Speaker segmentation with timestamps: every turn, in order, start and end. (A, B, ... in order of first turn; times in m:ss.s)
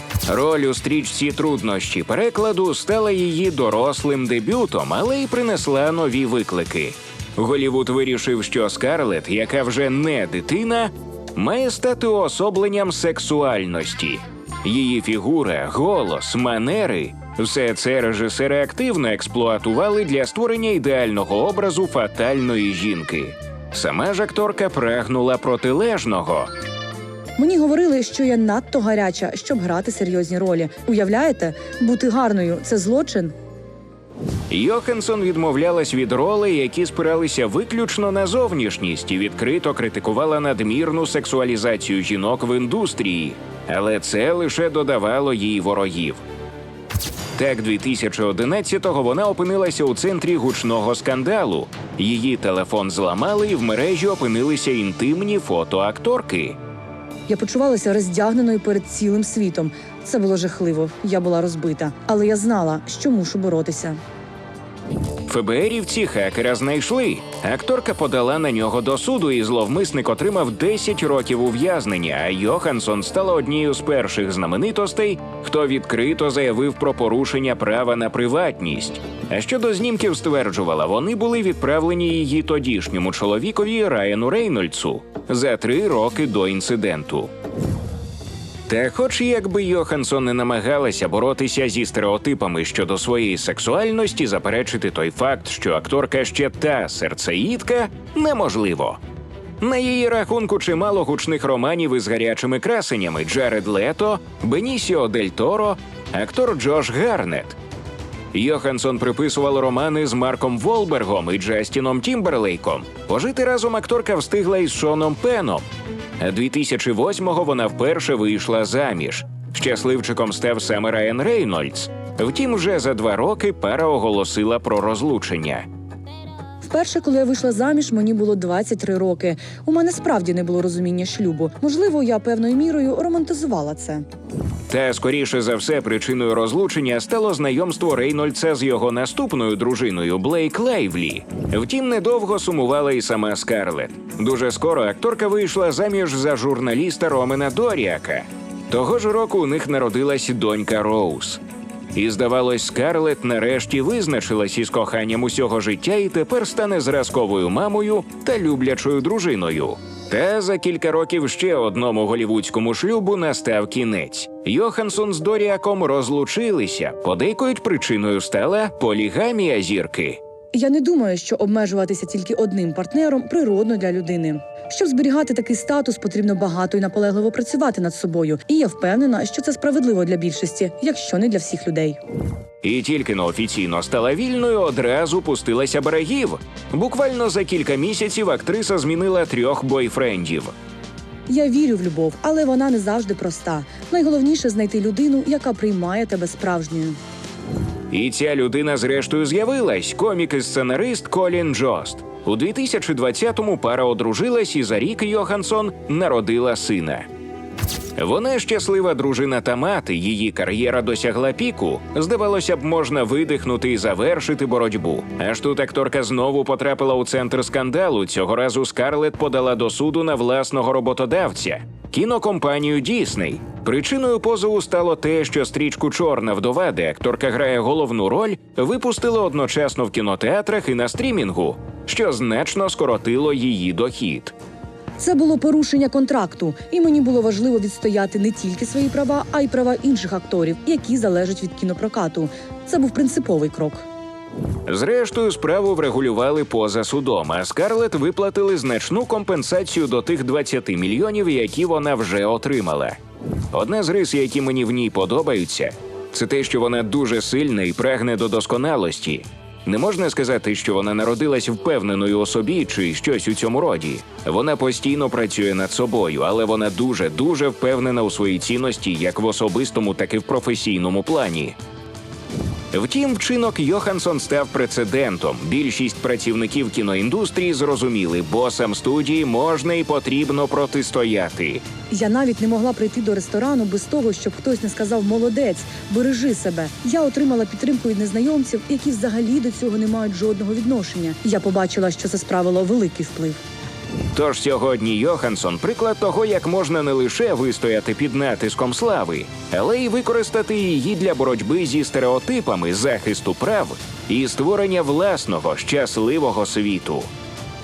0:00.3-0:26.5 A
0:27.4-0:33.3 B
0:34.5-0:46.2 A
0:47.4-0:56.6 A
0:57.3-1:04.0 B
1:05.3-1:27.3 A
1:28.7-1:39.0 A
1:39.6-1:47.6 A
1:48.3-1:55.6 A
1:56.2-2:05.6 A
2:06.6-2:14.0 B
2:14.7-2:31.4 A
2:31.9-2:50.2 A
2:50.5-3:02.0 B
3:02.6-3:10.5 A
3:11.3-3:17.0 B
3:17.9-3:27.1 A
3:28.0-3:54.3 A
3:55.0-4:03.8 B
4:04.7-4:13.0 A
4:13.5-4:31.6 A
4:32.7-4:41.6 A
4:41.9-4:53.4 B
4:54.1-5:07.1 A